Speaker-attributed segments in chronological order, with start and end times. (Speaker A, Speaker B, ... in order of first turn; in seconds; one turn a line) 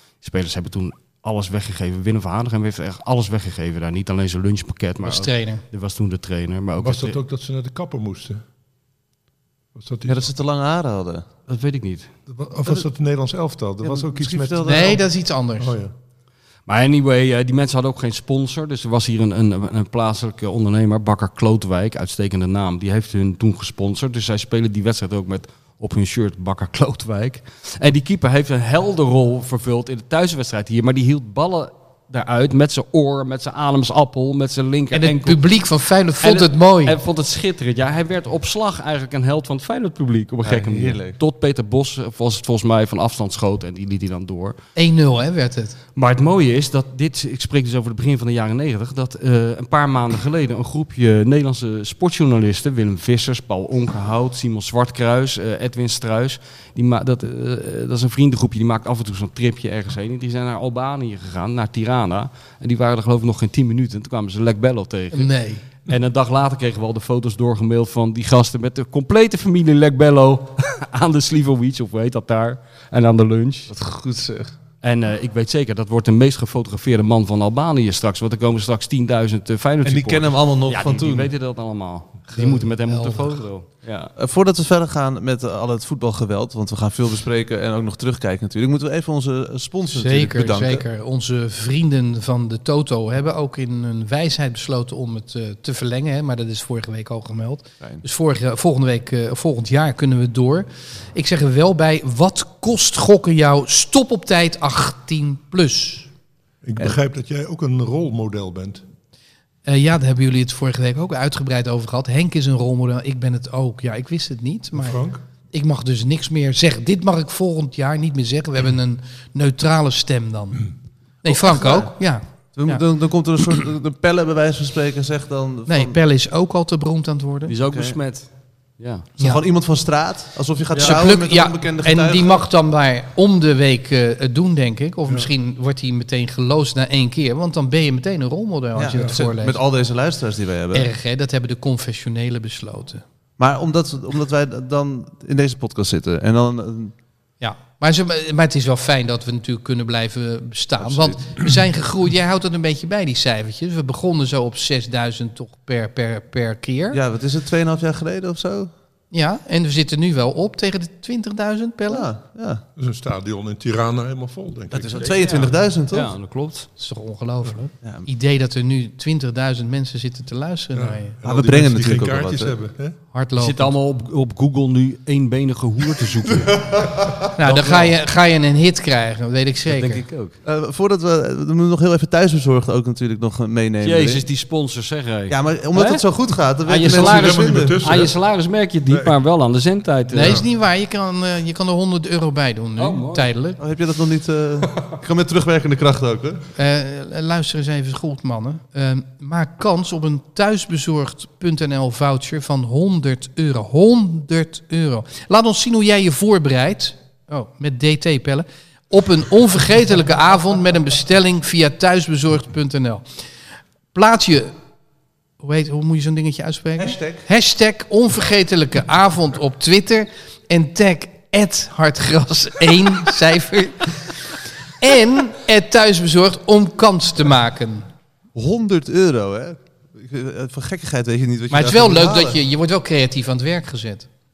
Speaker A: 0.2-7.2
Speaker B: 5.0-5.6
Speaker C: 6.8-8.4
Speaker C: 9.8-10.3
Speaker D: 10.1-11.3
Speaker A: 11.5-12.1
Speaker C: 12.3-15.0
Speaker D: 13.8-15.0
Speaker B: 14.6-15.8
Speaker C: 15.6-15.9
Speaker A: 16.7-35.4
Speaker B: 34.9-37.0
Speaker A: 36.2-44.6
Speaker D: 40.4-41.2
Speaker B: 44.8-45.8
Speaker A: 46.0-65.3
Speaker B: 65.1-65.6
Speaker A: 65.9-73.7
Speaker D: 73.7-74.5
Speaker A: 74.8-84.1
Speaker D: 79.8-81.3
Speaker B: 82.3-83.4
Speaker D: 84.2-90.8
Speaker B: 89.9-106.1
Speaker C: 106.6-108.8
Speaker B: 109.7-120.7
Speaker C: 114.8-115.2
Speaker B: 121.2-122.8
Speaker D: 121.2-121.9
Speaker D: 122.5-125.9
Speaker B: 125.7-127.5
Speaker A: 127.5-128.3
Speaker D: 127.7-128.0
Speaker A: 128.8-129.1
Speaker D: 129.2-132.4
Speaker B: 130.8-139.6
Speaker D: 138.8-140.9
Speaker B: 140.7-143.0
Speaker D: 143.4-146.9
Speaker B: 147.4-157.0
Speaker D: 150.8-151.2
Speaker D: 156.9-158.7
Speaker B: 159.1-162.1
Speaker D: 161.9-162.6
Speaker C: 162.8-165.1
Speaker D: 164.7-166.1
Speaker A: 165.0-166.7
Speaker B: 166.8-171.2
Speaker C: 170.8-173.0
Speaker D: 171.2-172.5
Speaker B: 173.1-173.7
Speaker A: 173.4-176.7
Speaker D: 176.5-177.3
Speaker B: 177.4-180.0
Speaker A: 177.5-177.9
Speaker A: 179.7-180.3
Speaker D: 180.4-184.2
Speaker A: 183.8-186.0
Speaker D: 185.3-187.8
Speaker A: 186.6-190.4
Speaker C: 186.8-188.1
Speaker C: 188.9-189.1
Speaker B: 190.1-193.6
Speaker C: 190.2-190.4
Speaker A: 192.8-193.3
Speaker D: 193.6-196.5
Speaker B: 196.6-213.0
Speaker B: 213.9-214.5
Speaker B: 215.4-224.1
Speaker D: 216.8-217.2
Speaker B: 224.8-227.8
Speaker D: 228.3-232.4
Speaker B: 231.5-234.1